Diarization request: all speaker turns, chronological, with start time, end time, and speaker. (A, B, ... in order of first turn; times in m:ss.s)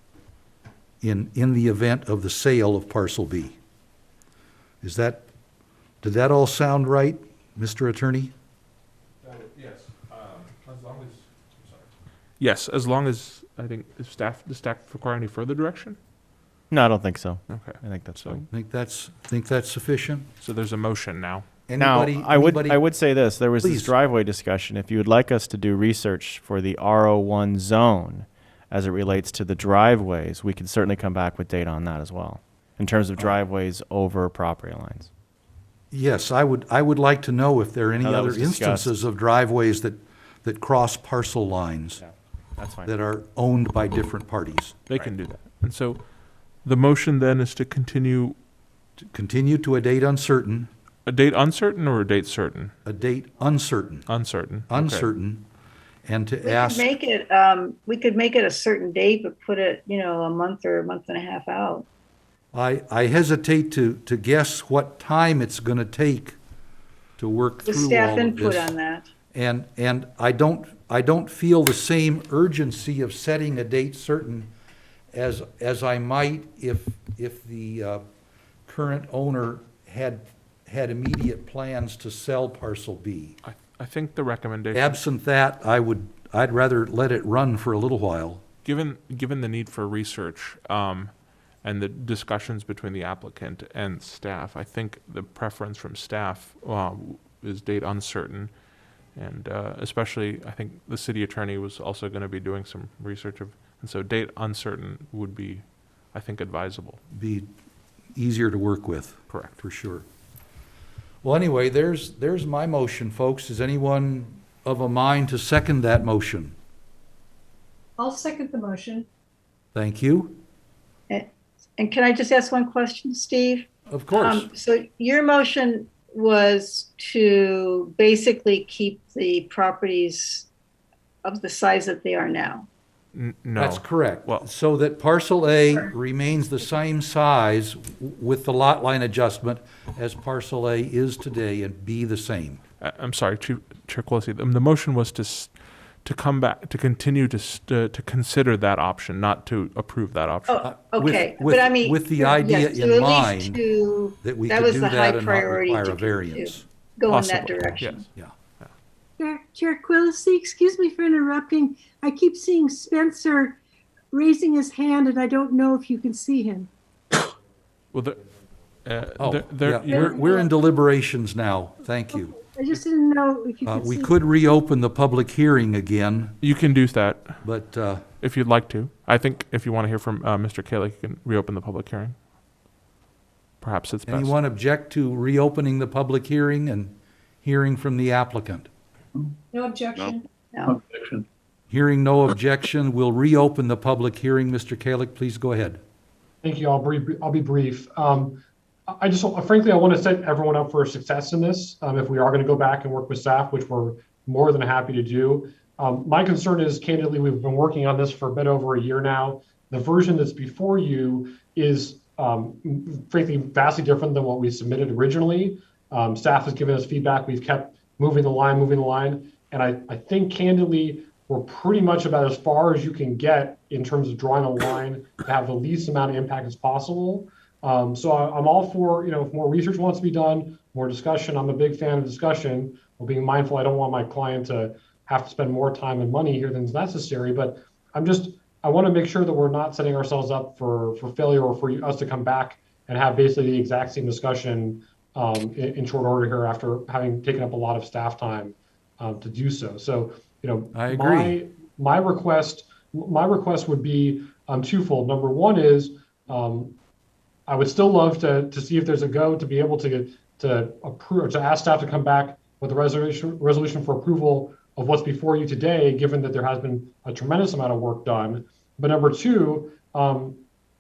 0:01.0-0:03.6 A
0:04.8-0:05.3 A
0:06.0-0:08.3 A
0:09.2-0:11.9 B
0:12.4-0:16.0 B
0:16.7-0:18.5 C
0:17.5-0:18.4 B
0:18.5-0:20.3 A
0:20.4-0:21.4 B
0:21.7-0:22.8 A
0:21.8-0:35.1 C
0:23.6-0:23.9 A
0:35.9-0:42.0 A
0:38.0-0:39.0 C
0:42.0-0:42.9 C
0:42.8-0:44.8 A
0:44.9-0:46.1 B
0:46.6-0:48.4 B
0:49.0-0:50.7 A
0:51.0-0:52.7 B
0:52.8-0:54.1 A
0:54.1-0:55.1 B
0:54.7-0:55.4 A
0:56.0-0:56.9 A
0:56.4-1:01.8 D
1:02.5-1:06.4 A
1:07.2-1:08.7 A
1:07.6-1:09.1 D
1:09.3-1:14.5 A
1:15.1-1:18.0 A
1:18.7-1:23.4 A
1:23.4-1:25.0 B
1:24.7-1:28.4 A
1:28.6-1:38.6 B
1:39.1-1:47.0 B
1:47.1-1:47.5 A
1:48.1-1:50.0 A
1:49.3-1:49.5 B
1:51.2-1:56.5 A
1:58.0-1:59.0 E
1:59.7-2:00.4 A
2:01.1-2:10.5 D
2:03.9-2:04.5 A
2:11.2-2:12.7 D
2:13.1-2:14.4 B
2:13.6-2:22.6 A
2:22.8-2:30.7 B
2:30.5-2:38.0 D
2:30.6-2:33.6 A
2:34.2-2:36.6 A
2:37.1-2:38.0 B
2:39.2-2:43.6 E
2:44.1-2:46.7 E
2:47.9-2:48.2 B
2:48.8-2:50.2 B
2:49.2-2:52.4 A
2:50.1-2:50.4 E
2:52.1-2:54.1 E
2:53.6-2:56.4 A
2:56.4-2:57.4 B
2:57.4-2:58.0 A
2:58.2-3:02.2 B
3:03.6-3:04.3 B
3:04.1-3:08.7 A
3:09.5-3:10.2 E
3:10.5-3:10.8 D
3:11.7-3:15.8 A
3:16.4-4:16.8 F
4:10.7-4:11.4 A
4:17.5-4:30.4 F